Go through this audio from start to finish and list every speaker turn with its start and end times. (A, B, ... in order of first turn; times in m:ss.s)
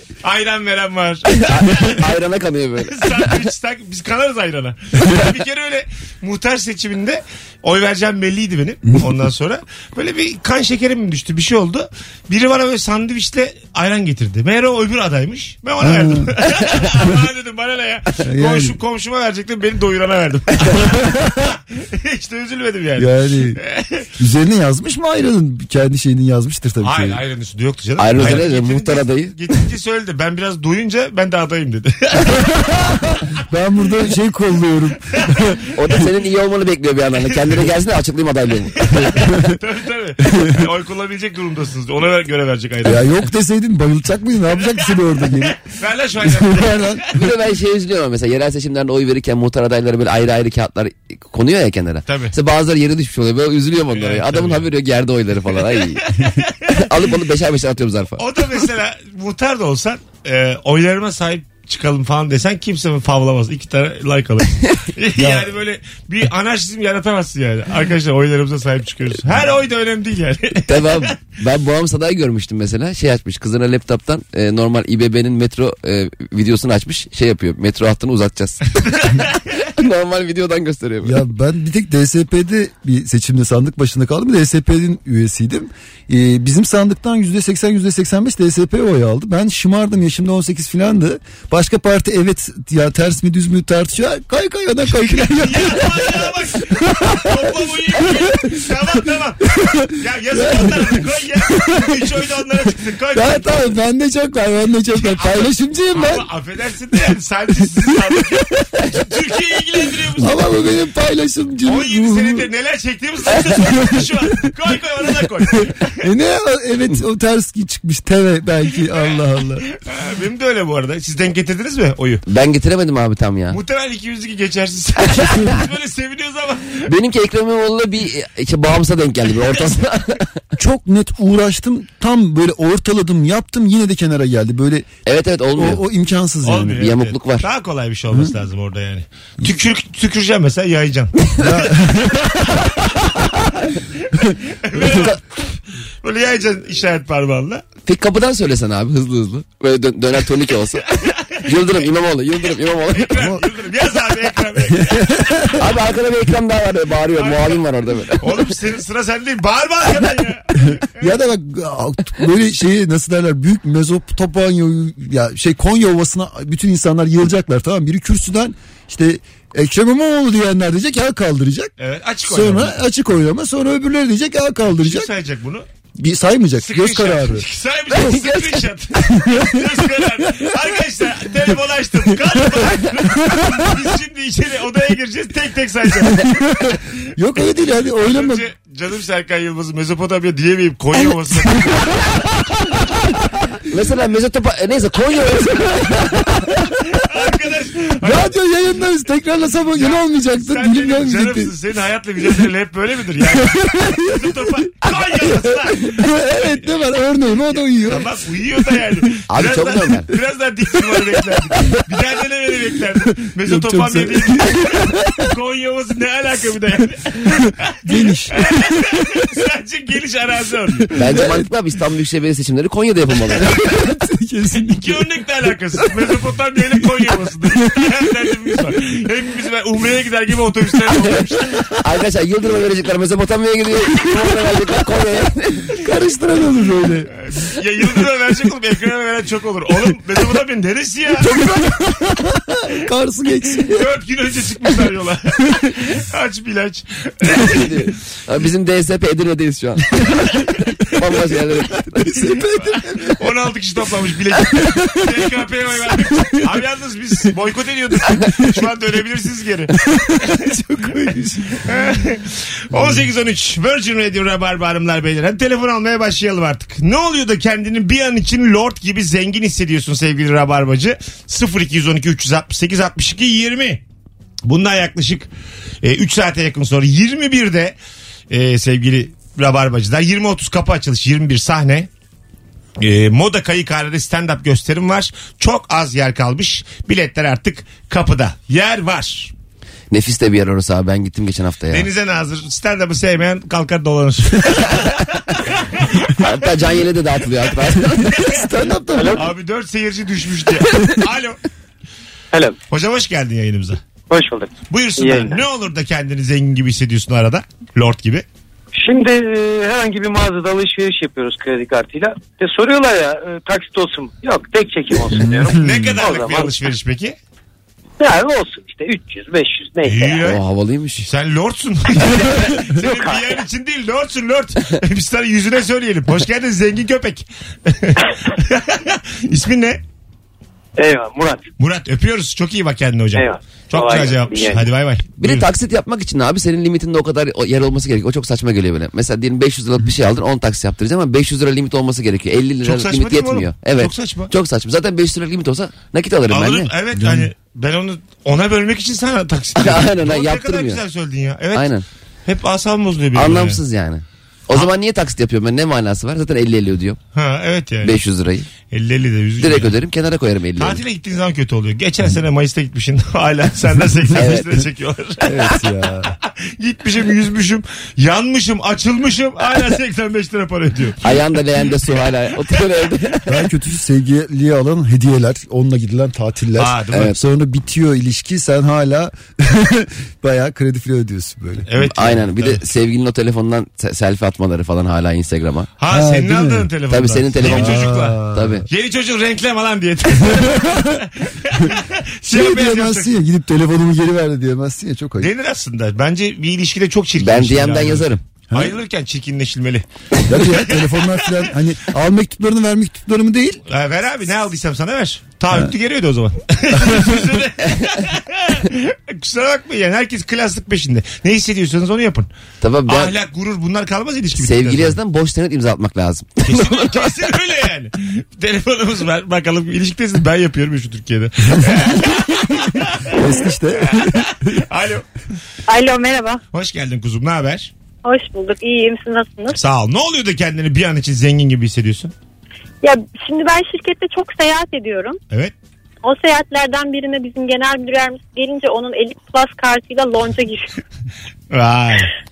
0:00.2-0:02.1 A
0:01.3-0:03.4 B
0:02.8-0:24.1 A
0:15.8-0:17.3 C
0:18.2-0:18.8 C
0:20.7-0:21.3 C
0:23.0-0:23.6 C
0:24.2-0:27.2 C
0:26.8-0:32.8 A
0:28.0-0:29.4 B
0:28.2-0:28.4 C
0:32.6-0:35.7 C
0:35.1-0:35.6 A
0:35.7-0:39.2 B
0:37.2-0:37.7 A
0:38.8-0:43.2 A
0:39.1-0:39.6 C
0:42.8-0:45.6 C
0:44.6-0:47.2 A
0:46.2-0:47.3 C
0:47.2-0:56.1 B
0:52.1-0:52.3 A
0:53.9-0:54.7 A
0:55.6-0:57.1 A
0:56.7-0:58.2 B
0:58.2-1:11.1 A
1:05.2-1:05.5 C
1:10.7-1:21.2 B
1:21.0-1:39.0 C
1:34.9-1:43.7 A
1:39.5-1:42.2 C
1:43.1-1:46.3 C
1:44.9-1:50.5 A
1:50.2-1:52.5 C
1:51.6-1:56.0 A
1:53.6-1:54.5 C
1:55.5-1:59.6 C
1:59.7-2:02.2 A
2:02.3-2:03.6 B
2:03.5-2:06.9 A
2:05.0-2:05.6 B
2:06.9-2:10.4 B
2:10.6-2:14.9 C
2:15.1-2:15.8 B
2:15.6-2:16.9 C
2:16.4-2:21.1 A
2:16.8-2:17.4 B
2:21.4-2:22.9 C
2:24.6-2:25.2 A
2:24.8-2:25.2 B
2:26.0-2:27.6 A
2:27.9-2:33.3 B
2:30.9-2:31.9 A
2:32.4-2:35.5 A
2:33.2-2:33.4 C
2:34.8-2:35.7 C
2:35.5-2:38.5 B
2:37.1-2:37.6 A
2:38.2-2:41.2 A
2:40.6-2:51.7 C
2:51.8-2:52.8 A
2:52.3-2:55.1 C
2:54.7-2:55.6 A
2:56.0-2:57.4 C
2:56.6-3:06.3 A
2:57.9-2:58.6 B
2:59.0-3:00.6 C
3:02.3-3:03.8 C
3:05.9-3:08.5 C
3:08.0-3:12.1 A
3:11.0-3:13.6 C
3:13.7-3:16.5 B
3:15.6-3:16.6 C
3:16.9-3:18.4 A
3:18.0-3:21.5 C
3:19.7-3:26.7 A
3:23.2-3:28.1 C
3:27.8-3:37.8 A
3:29.3-3:30.1 B
3:33.4-3:35.3 C
3:37.8-3:39.2 C
3:38.3-3:40.9 A
3:40.7-3:41.5 C
3:40.9-3:43.7 B
3:43.4-3:46.1 C
3:44.6-3:51.7 A
3:46.8-3:48.6 C
3:51.8-3:55.8 B
3:55.8-3:57.2 C
3:57.2-4:01.3 A
4:01.2-4:03.9 C
4:01.2-4:01.6 B
4:03.6-4:07.9 A
4:07.3-4:10.3 B
4:11.0-4:12.1 B
4:11.9-4:13.3 C
4:12.6-4:20.5 A
4:14.5-4:16.5 C
4:18.0-4:18.6 C
4:19.8-4:21.7 C
4:21.6-4:33.8 A
4:22.7-4:23.0 C
4:34.4-4:35.3 A
4:35.8-4:37.8 A
4:38.3-4:41.9 A
4:42.8-4:49.3 A
4:49.9-4:51.9 B
4:51.7-4:56.3 A
4:56.2-4:58.4 B
4:58.0-4:59.3 C
4:59.0-4:59.2 D
4:59.2-5:01.4 A
5:02.3-5:02.6 D
5:02.7-5:03.8 A
5:04.1-5:05.4 D
5:04.7-5:08.2 A
5:08.7-5:16.6 D
5:15.1-5:16.0 C
5:15.6-5:17.2 A
5:18.0-5:20.3 D
5:19.8-5:20.4 A
5:20.2-5:21.1 B
5:21.0-5:29.8 A
5:22.0-5:23.4 D
5:30.8-5:31.5 D
5:31.6-5:35.5 A
5:33.2-5:34.7 D
5:35.2-5:46.7 B
5:42.6-5:44.3 A
5:46.3-5:51.7 A
5:47.0-5:47.3 C
5:49.6-5:50.8 B
5:51.6-5:51.8 B
5:52.3-5:53.6 A
5:53.2-5:57.0 B
5:57.2-5:58.0 A
5:57.8-5:58.5 B
5:58.7-5:59.8 A
5:59.4-6:00.8 B
6:00.6-6:05.6 A
6:04.1-6:04.6 B
6:05.2-6:06.2 C
6:06.1-6:11.7 A
6:11.0-6:13.4 B
6:13.3-6:21.7 C
6:16.6-6:17.2 A
6:21.7-6:22.6 A
6:21.8-6:25.7 B
6:25.8-6:33.1 A
6:25.9-6:26.7 C
6:26.9-6:28.7 B
6:27.4-6:28.6 C
6:30.2-6:31.0 C
6:32.3-6:35.3 C
6:35.2-6:40.9 A
6:37.2-6:38.2 B
6:38.5-6:38.8 C
6:40.3-6:43.6 C
6:43.7-6:52.3 A
6:46.8-6:47.4 C
6:52.6-6:53.1 B
6:52.9-6:55.0 A
6:54.4-6:57.1 B
6:56.4-7:05.1 A
7:03.0-7:04.6 C
7:05.7-7:06.4 E
7:06.5-7:07.7 A
7:08.0-7:09.6 E
7:09.6-7:12.1 A
7:12.8-7:15.2 E
7:16.0-7:20.8 E
7:21.5-7:22.1 A